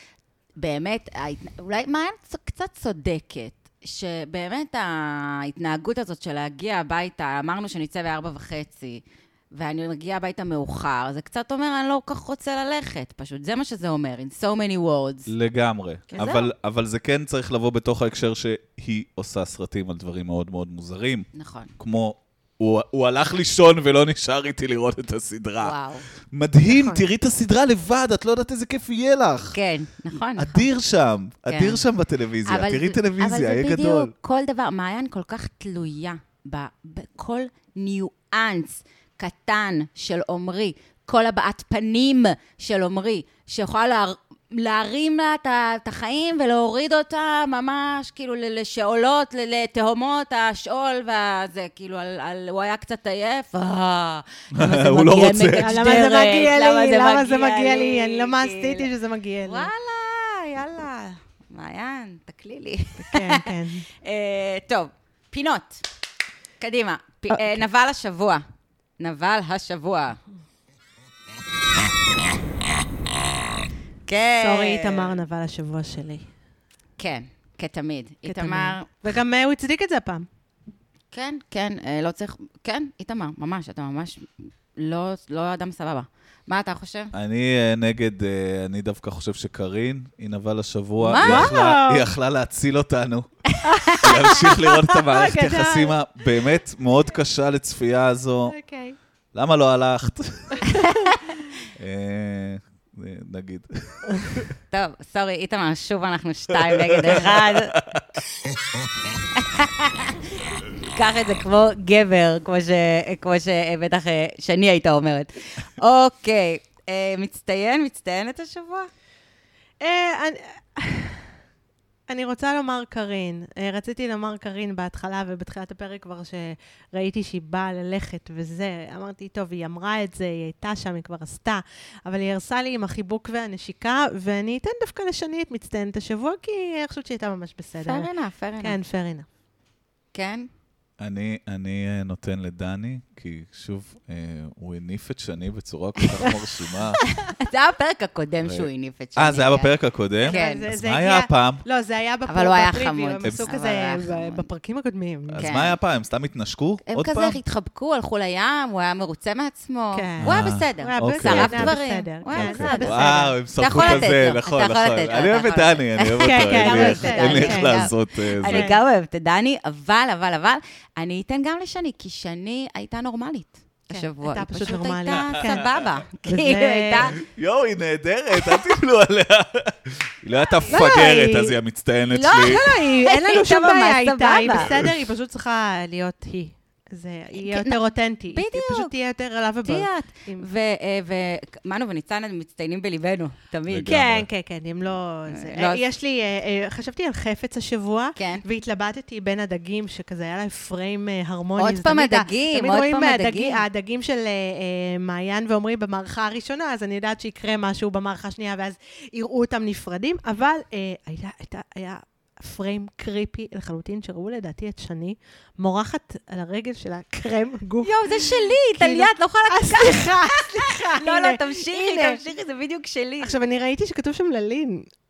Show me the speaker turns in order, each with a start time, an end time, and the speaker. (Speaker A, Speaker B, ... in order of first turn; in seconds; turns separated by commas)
Speaker A: 0.6-9.0, Speaker A: 9.5-15.3, Speaker B: 15.3-29.6, Speaker A: 16.1-16.5, Speaker A: 21.3-21.7, Speaker A: 25.6-26.1, Speaker C: 26.7-27.0, Speaker A: 29.5-30.7, Speaker B: 30.4-34.1, Speaker A: 31.5-31.8, Speaker A: 32.5-58.9, Speaker B: 54.5-55.8, Speaker C: 55.5-59.7, Speaker A: 59.4-63.4, Speaker C: 63.0-63.9, Speaker A: 64.0-65.8, Speaker A: 66.6-68.4, Speaker C: 67.3-67.6, Speaker A: 69.0-70.2, Speaker A: 74.0-75.1, Speaker C: 74.4-76.3, Speaker A: 77.0-78.9, Speaker C: 78.2-80.3, Speaker A: 81.1-87.1, Speaker B: 87.1-93.3, Speaker A: 91.0-91.5, Speaker C: 91.2-92.1, Speaker A: 93.5-94.1, Speaker C: 93.6-96.0, Speaker B: 94.0-98.5, Speaker C: 98.5-99.0, Speaker B: 99.3-100.6, Speaker A: 100.7-101.3, Speaker B: 101.8-104.5, Speaker A: 104.7-107.7, Speaker B: 106.6-108.0, Speaker A: 109.3-110.2, Speaker A: 110.9-118.9, Speaker C: 119.8-121.2, Speaker C: 122.1-139.2, Speaker A: 137.8-138.8, Speaker A: 140.1-140.5, Speaker B: 141.0-147.0, Speaker A: 147.2-150.7, Speaker B: 148.4-151.6, Speaker C: 150.2-155.4, Speaker A: 152.3-154.5, Speaker B: 155.3-157.4, Speaker A: 155.4-155.8, Speaker A: 156.9-177.2, Speaker C: 159.9-164.1, Speaker B: 160.2-161.8, Speaker B: 162.3-168.7, Speaker C: 166.2-167.9, Speaker C: 168.4-168.8, Speaker C: 173.9-175.7, Speaker C: 176.2-177.2, Speaker B: 177.2-182.6, Speaker C: 180.7-181.6, Speaker A: 182.1-184.7, Speaker C: 182.4-190.4, Speaker A: 187.4-187.8, Speaker A: 188.3-188.9, Speaker A: 189.7-194.0, Speaker B: 193.7-194.3, Speaker C: 193.9-222.2, Speaker A: 195.3-195.8, Speaker A: 198.2-198.4, Speaker A: 201.6-203.6, Speaker A: 217.8-223.3, Speaker C: 223.2-224.9